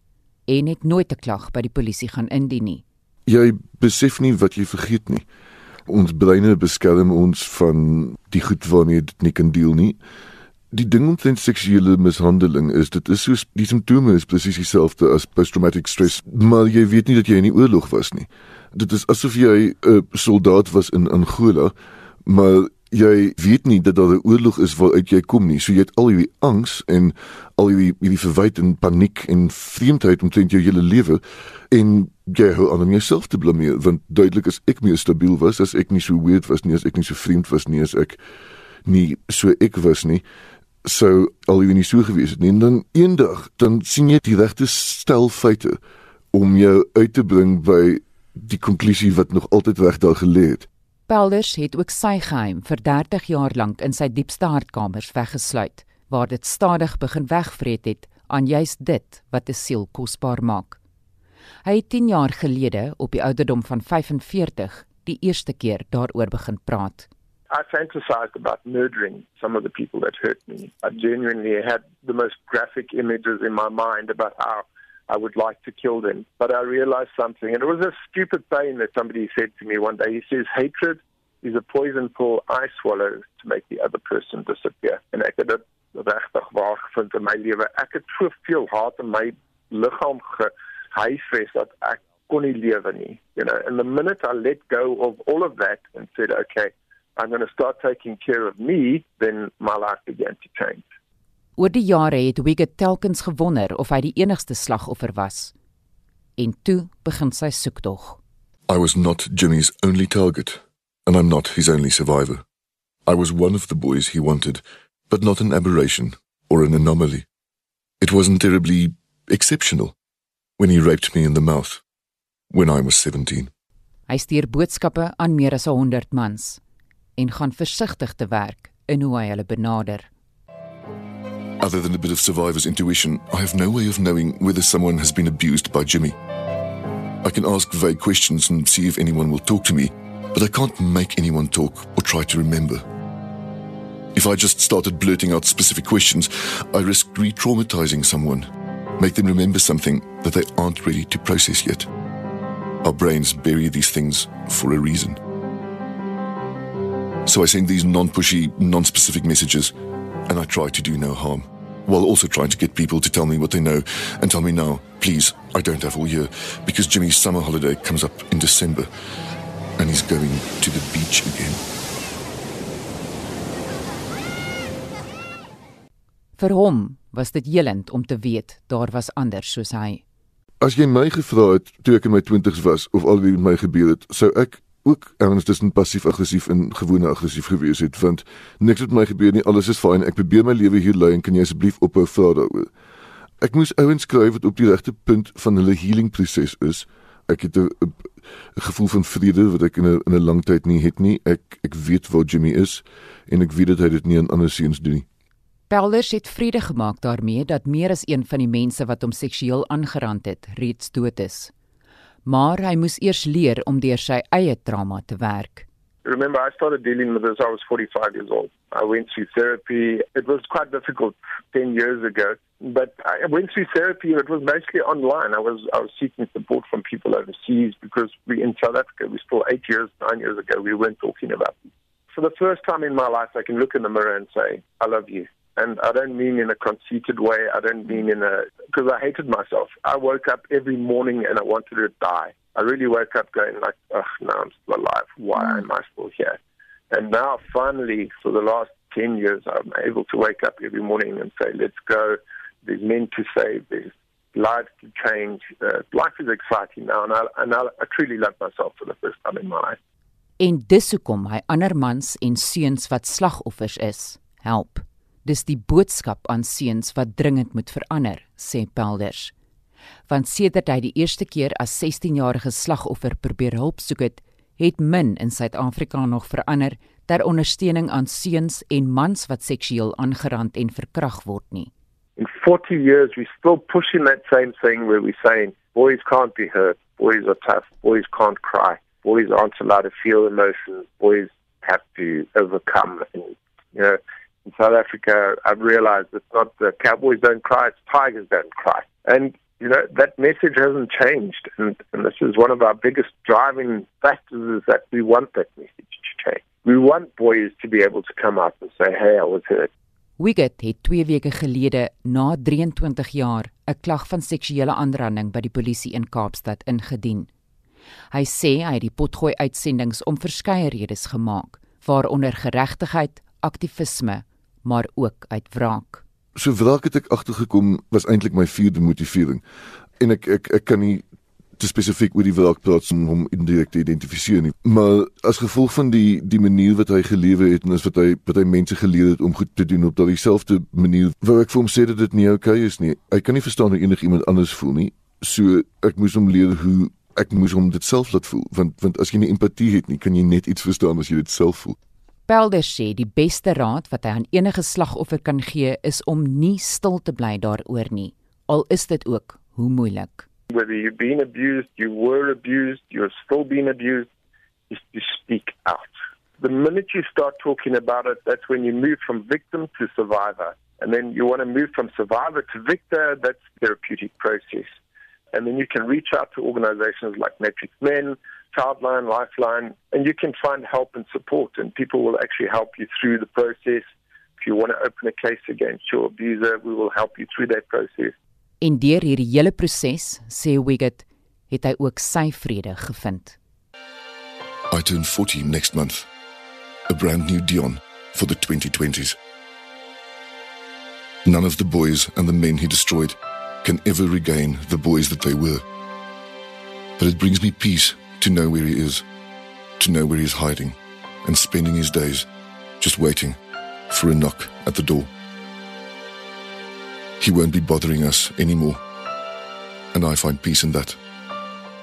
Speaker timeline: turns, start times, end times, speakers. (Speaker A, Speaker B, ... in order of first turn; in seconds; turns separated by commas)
Speaker A: 0.5-2.8, Speaker B: 3.3-5.2, Speaker B: 5.9-10.0, Speaker B: 10.7-21.7, Speaker B: 22.2-38.2, Speaker B: 38.9-40.2, Speaker B: 40.8-45.8, Speaker B: 46.3-50.7, Speaker A: 51.1-60.8, Speaker A: 61.6-67.1, Speaker C: 67.5-100.8, Speaker A: 101.6-105.5, Speaker A: 106.4-108.2, Speaker B: 108.7-112.4, Speaker B: 113.1-117.2, Speaker B: 118.0-120.0, Speaker B: 120.6-121.8, Speaker B: 122.5-123.5, Speaker A: 124.1-126.6, Speaker A: 127.2-130.1, Speaker B: 131.6-136.2, Speaker B: 137.2-142.8, Speaker B: 144.1-151.9, Speaker B: 152.8-155.2, Speaker B: 157.2-159.7, Speaker B: 160.3-168.9, Speaker B: 169.8-171.6, Speaker A: 176.4-180.0, Speaker B: 180.6-192.7, Speaker B: 193.4-205.1, Speaker A: 205.7-211.5, Speaker A: 212.2-215.7, Speaker C: 216.0-246.4, Speaker C: 246.9-259.8, Speaker A: 260.4-269.3, Speaker A: 270.1-281.7, Speaker C: 282.2-309.7, Speaker A: 310.2-317.3, Speaker A: 318.1-326.0, Speaker B: 326.4-329.4, Speaker B: 330.0-331.0, Speaker B: 331.6-351.8, Speaker A: 352.3-360.2, Speaker C: 360.5-364.1, Speaker C: 364.7-374.7, Speaker C: 375.3-383.8, Speaker C: 384.4-388.1, Speaker A: 388.6-393.4, Speaker B: 394.7-396.1, Speaker B: 396.9-399.2, Speaker B: 401.2-405.6, Speaker B: 407.0-409.0, Speaker B: 409.8-412.3, Speaker B: 412.8-413.4, Speaker B: 413.9-415.1, Speaker B: 417.2-418.8, Speaker B: 419.9-421.0